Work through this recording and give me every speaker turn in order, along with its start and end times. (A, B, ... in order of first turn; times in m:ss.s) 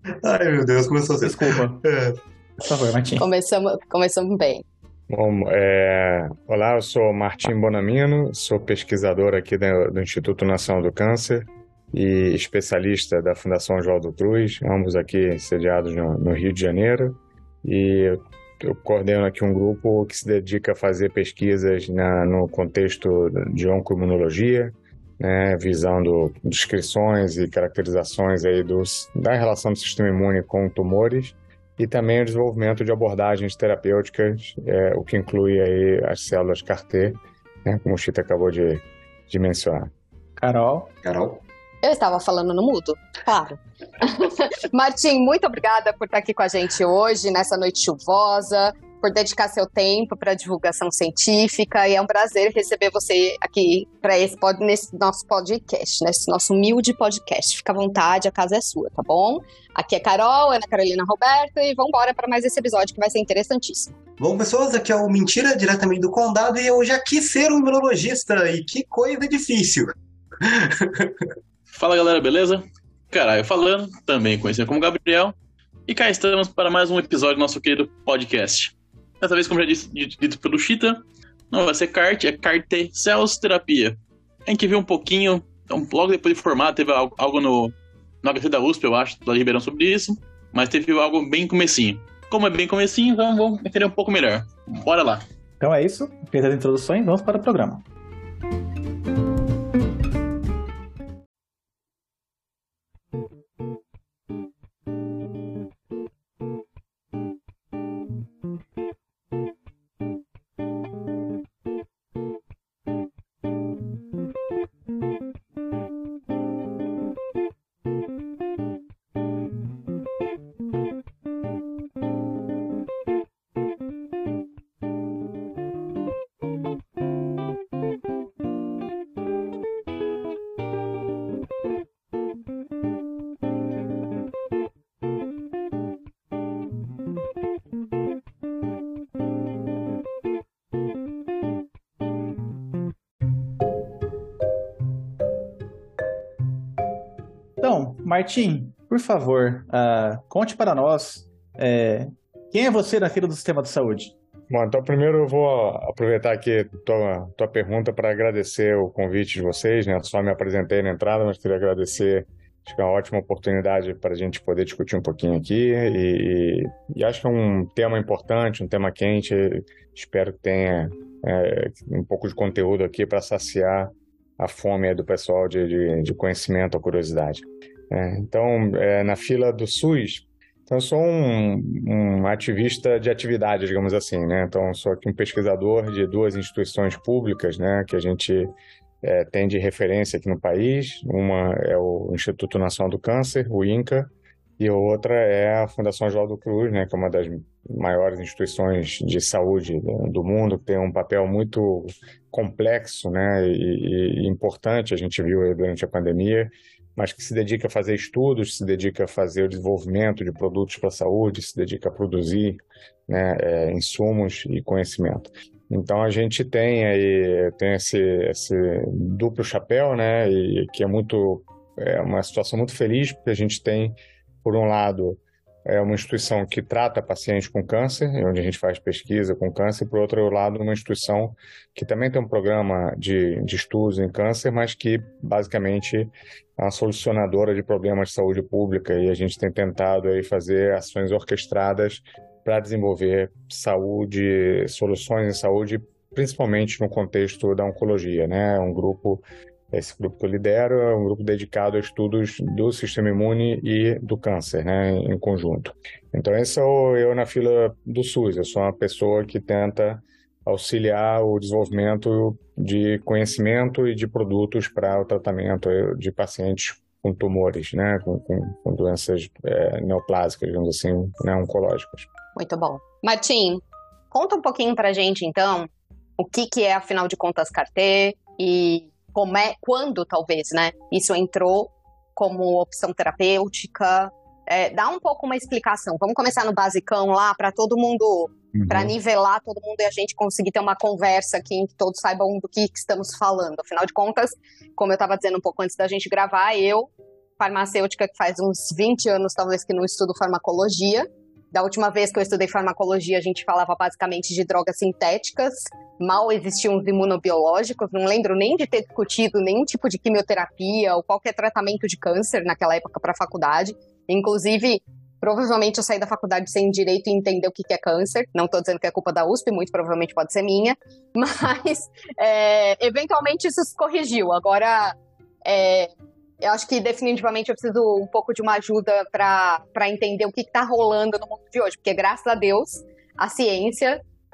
0:00.2-0:02.2 A
0:01.2-0:01.8 B
0:02.6-0:03.3 B
0:03.2-0:04.6 C
0:05.1-0:39.9 D
0:40.4-0:40.9 B
0:41.0-0:41.4 A
0:41.8-1:03.9 C
1:04.2-1:11.3 A
1:11.7-1:15.4 E
1:15.9-1:35.2 E
1:35.6-1:37.8 B
2:27.6-2:34.2 B
2:34.5-4:32.1 D
4:32.4-5:34.0 C
4:48.6-4:48.9 D